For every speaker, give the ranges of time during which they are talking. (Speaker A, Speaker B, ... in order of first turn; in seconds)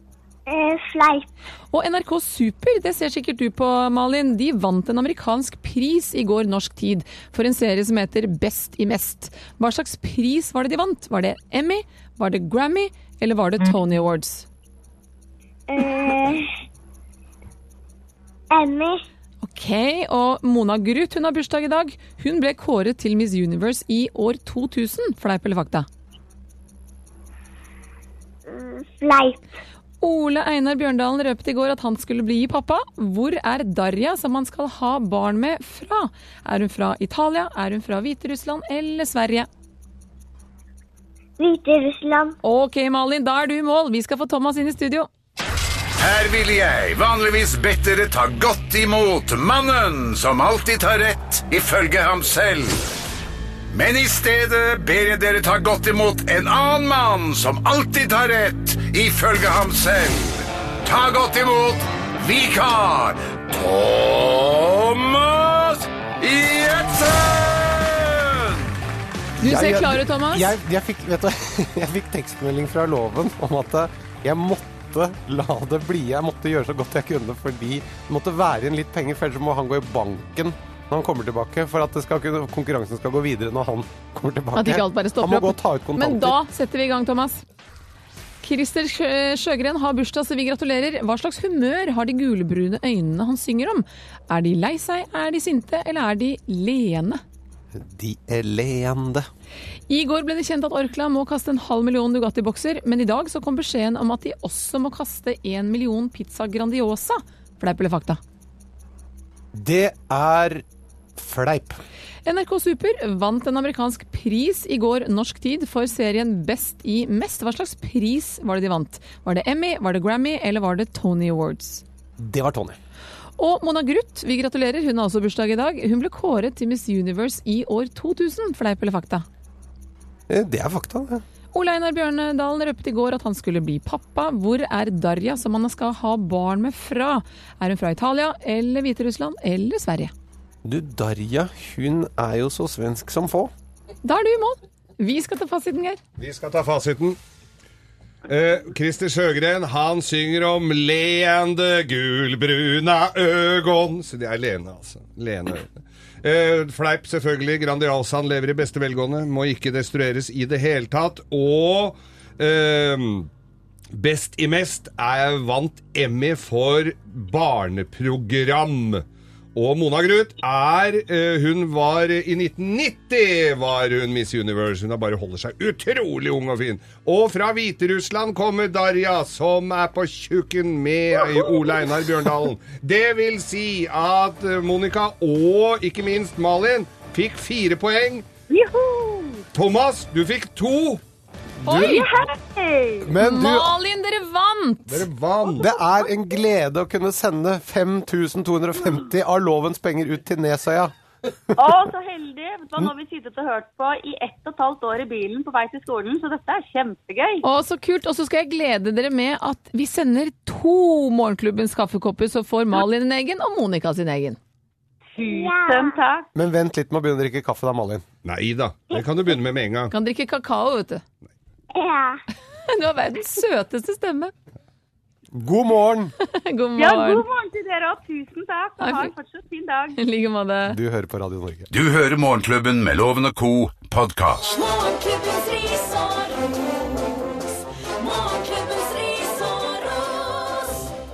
Speaker A: 0.5-1.3, 15.7-16.5, 18.5-19.0, 28.5-29.5, 41.4-42.4, 215.2-216.0, 221.7-222.2
Speaker B: 1.7-14.5, 19.4-25.9, 30.0-39.5, 42.4-45.1, 69.4-70.5, 84.5-87.4, 88.4-97.2, 99.9-108.2, 112.3-121.8, 123.4-129.2, 131.5-140.1, 144.0-146.0, 191.7-192.1, 193.2-195.1, 207.4-214.4, 219.9-221.0, 222.7-224.3, 226.2-227.2, 228.8-229.1, 230.0-230.8
Speaker C: 46.0-52.9, 53.7-68.7, 231.7-234.6
Speaker D: 69.4-86.4, 97.7-99.3, 109.5-110.6, 111.2-111.8, 122.2-122.8, 130.3-131.2, 140.6-143.5, 193.0-193.8, 195.6-200.9, 216.3-218.1, 225.3-226.1, 230.7-231.7
Speaker E: 146.2-147.2, 148.3-163.3, 163.9-188.3, 189.5-191.0, 191.6-192.1, 194.9-195.7, 218.2-219.9
Speaker F: 181.2-182.4, 188.5-189.4, 191.7-193.1, 201.6-207.4, 215.2-216.3, 226.8-230.0
Speaker G: 234.5-240.9